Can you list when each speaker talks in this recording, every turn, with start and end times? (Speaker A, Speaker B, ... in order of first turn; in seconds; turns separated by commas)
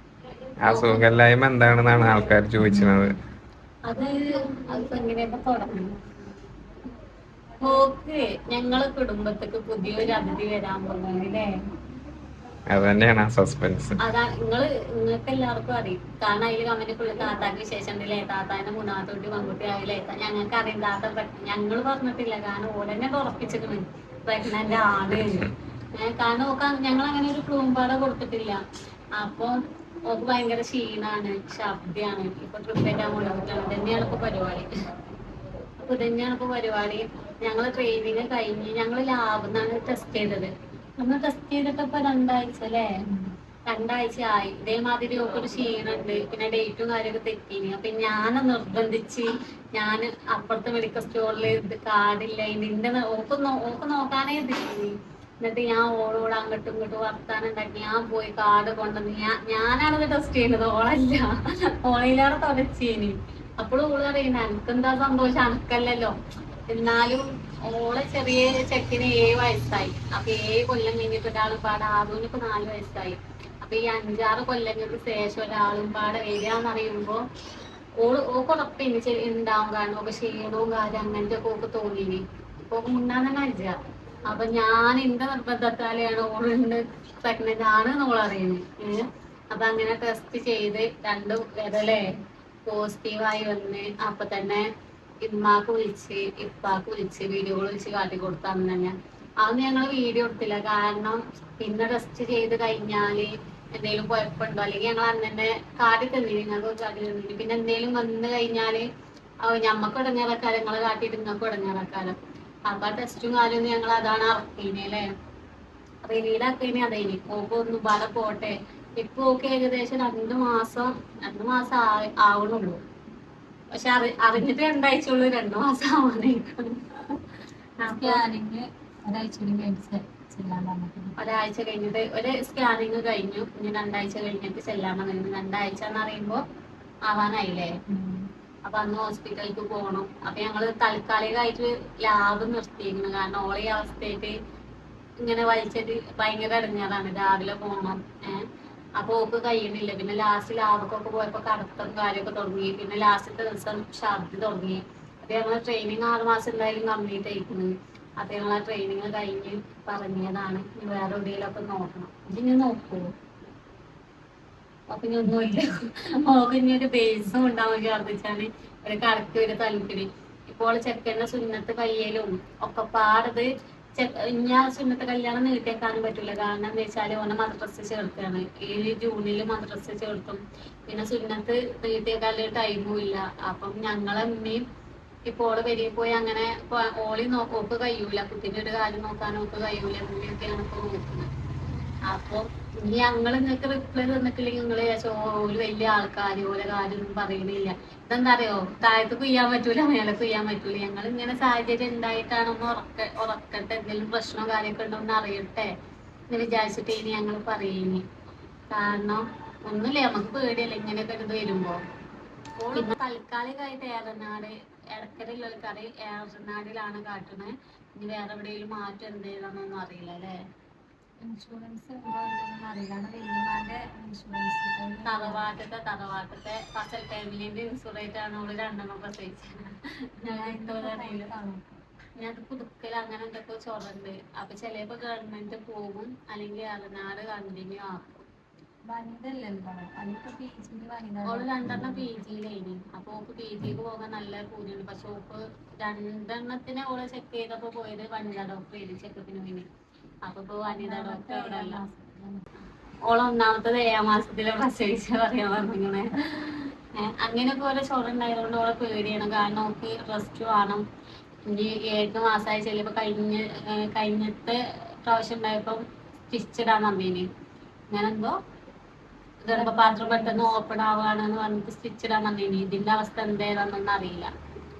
Speaker A: 0.6-3.1, Speaker B: 0.6-1.1, Speaker C: 2.6-3.1, Speaker B: 3.9-6.0, Speaker B: 7.6-11.5, Speaker A: 12.7-14.0, Speaker B: 14.0-28.6, Speaker B: 29.2-29.6, Speaker B: 30.1-34.7, Speaker B: 35.8-42.9, Speaker B: 43.7-66.1, Speaker B: 66.7-77.2, Speaker B: 78.0-83.7, Speaker B: 84.3-92.0, Speaker B: 92.7-94.7, Speaker B: 95.2-108.8, Speaker B: 109.4-115.1, Speaker B: 116.0-122.8, Speaker B: 123.7-127.2, Speaker B: 127.8-128.2, Speaker C: 127.8-131.1, Speaker B: 131.2-136.4, Speaker B: 137.1-137.7, Speaker C: 137.9-138.3, Speaker B: 138.7-144.3, Speaker B: 145.2-148.4, Speaker B: 149.0-163.1, Speaker B: 164.9-184.6, Speaker B: 185.3-191.3, Speaker B: 192.1-205.7, Speaker B: 206.3-208.0, Speaker B: 208.7-211.8, Speaker B: 212.6-220.3, Speaker C: 221.2-225.4, Speaker B: 225.1-229.6, Speaker B: 230.2-231.3, Speaker C: 230.3-231.6, Speaker B: 232.2-238.2, Speaker C: 238.8-242.1, Speaker B: 241.3-249.7, Speaker B: 250.2-251.8, Speaker C: 250.7-252.4, Speaker B: 253.1-260.8, Speaker B: 261.5-267.2, Speaker B: 267.9-268.4, Speaker B: 269.4-274.3, Speaker C: 269.5-270.5